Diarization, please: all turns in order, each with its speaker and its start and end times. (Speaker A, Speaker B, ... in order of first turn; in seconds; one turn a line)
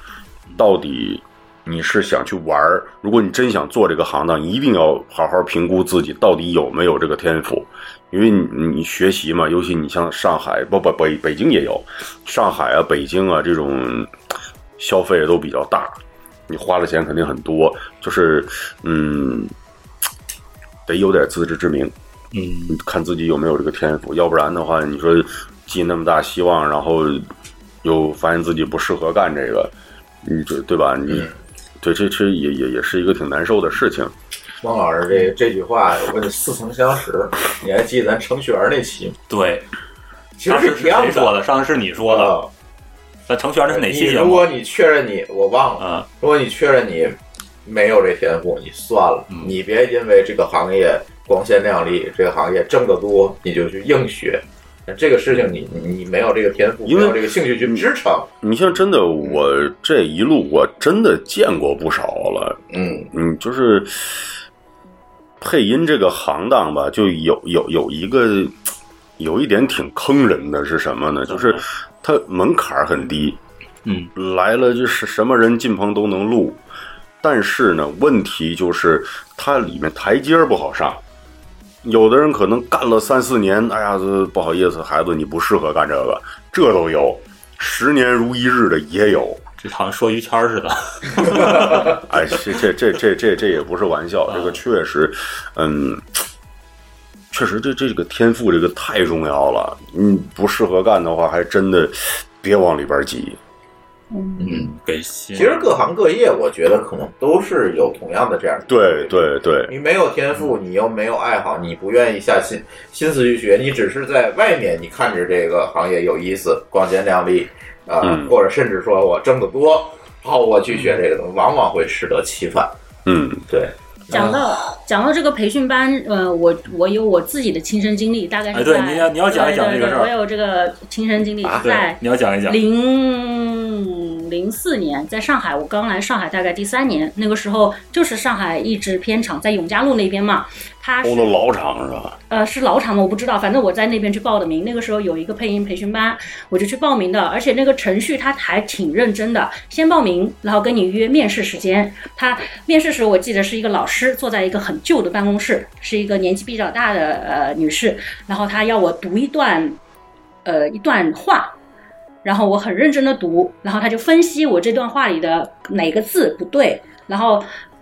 Speaker A: 0.6-14.1
Speaker A: 14.8-19.5
Speaker A: 20.9-21.9
Speaker B: 22.3-22.8
Speaker A: 22.7-27.3
Speaker A: 27.8-31.3
Speaker A: 31.8-34.1
Speaker C: 34.6-39.2
Speaker B: 39.3-39.7
Speaker C: 40.4-41.4
Speaker B: 40.5-42.4
Speaker C: 42.0-42.5
Speaker B: 43.3-44.5
Speaker C: 43.7-58.3
Speaker B: 45.8-46.1
Speaker A: 56.8-57.9
Speaker A: 58.4-62.6
Speaker C: 62.7-63.1
Speaker A: 63.1-64.3
Speaker A: 65.4-68.6
Speaker A: 69.2-73.4
Speaker B: 71.3-71.6
Speaker B: 73.8-74.1
Speaker A: 74.1-76.6
Speaker A: 77.2-81.0
Speaker A: 81.8-89.4
Speaker B: 89.6-92.0
Speaker A: 91.4-96.2
Speaker B: 94.3-94.6
Speaker A: 97.3-103.4
Speaker D: 104.1-104.4
Speaker C: 104.4-104.7
Speaker B: 104.4-105.7
Speaker C: 105.3-122.7
Speaker A: 108.7-109.7
Speaker A: 118.0-118.3
Speaker A: 123.0-123.5
Speaker C: 123.5-124.3
Speaker D: 124.1-141.3
Speaker B: 124.1-124.4
Speaker B: 128.5-130.1
Speaker B: 131.6-132.6
Speaker A: 141.0-142.2
Speaker D: 142.3-159.8
Speaker D: 160.4-161.5
Speaker D: 162.2-167.5